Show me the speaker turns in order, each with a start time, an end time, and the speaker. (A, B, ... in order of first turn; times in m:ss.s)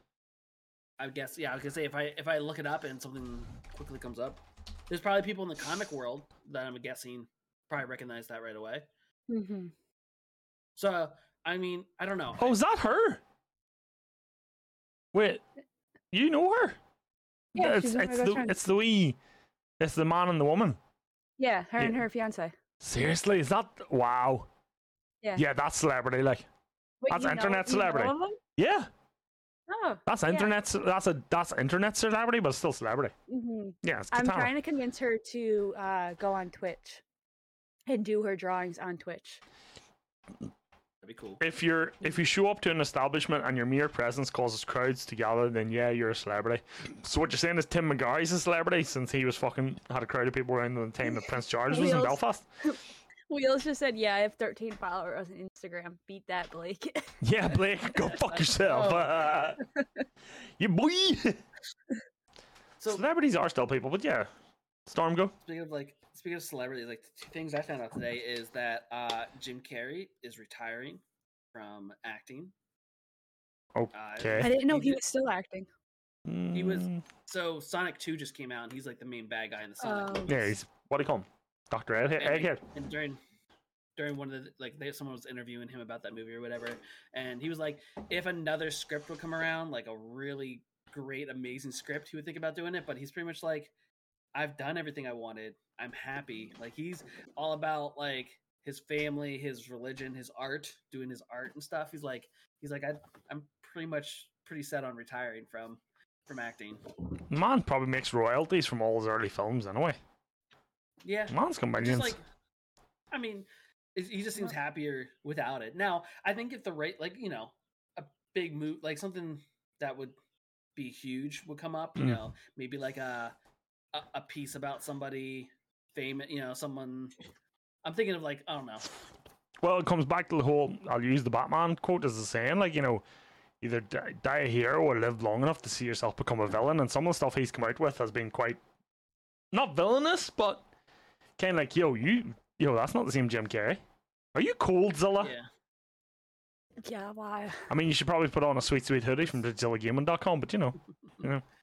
0:01.0-0:08.8 A
0:09.3-0:09.7 B
0:10.8-0:12.6 A
0:12.4-0:13.2 C
0:15.1-0:15.4 C
0:16.1-0:16.8 C
0:17.5-0:18.6 B
0:17.5-0:19.2 C
0:19.8-0:20.8 C
0:21.4-0:22.5 B
0:22.8-0:24.5 C
0:25.4-0:26.5 C
0:27.0-0:28.4 B
0:27.1-0:28.9 C
0:29.7-0:30.5 B
0:30.0-0:33.1 C
0:33.3-0:37.0 B
0:33.8-0:34.5 C
0:37.9-0:39.4 B
0:41.0-0:41.4 A
0:41.4-0:52.4 C
0:51.0-0:57.2 B
0:57.2-0:59.6 C
0:58.3-0:59.5 A
1:00.6-1:01.4 C
1:02.8-1:03.0 A
1:02.9-1:04.3 C
1:04.8-1:05.3 C
1:05.4-1:11.0 A
1:11.5-1:12.5 A
1:13.7-1:14.5 C
1:13.9-1:15.0 A
1:14.4-1:15.7 B
1:16.2-1:17.0 C
1:16.5-1:20.3 A
1:19.8-1:20.5 B
1:20.3-1:22.6 C
1:22.2-1:23.2 A
1:24.0-1:33.7 A
1:34.3-1:46.8 A
1:47.3-1:50.0 C
1:51.0-1:52.2 A
1:51.3-1:52.2 C
1:53.1-2:00.2 A
2:00.8-2:03.3 A
2:03.9-2:07.1 A
2:07.8-2:08.9 A
2:09.6-2:13.0 C
2:13.6-2:18.6 C
2:19.5-2:20.6 C
2:21.4-2:23.8 C
2:24.3-2:25.3 C
2:25.2-2:25.4 A
2:26.8-2:27.7 B
2:27.7-2:31.4 C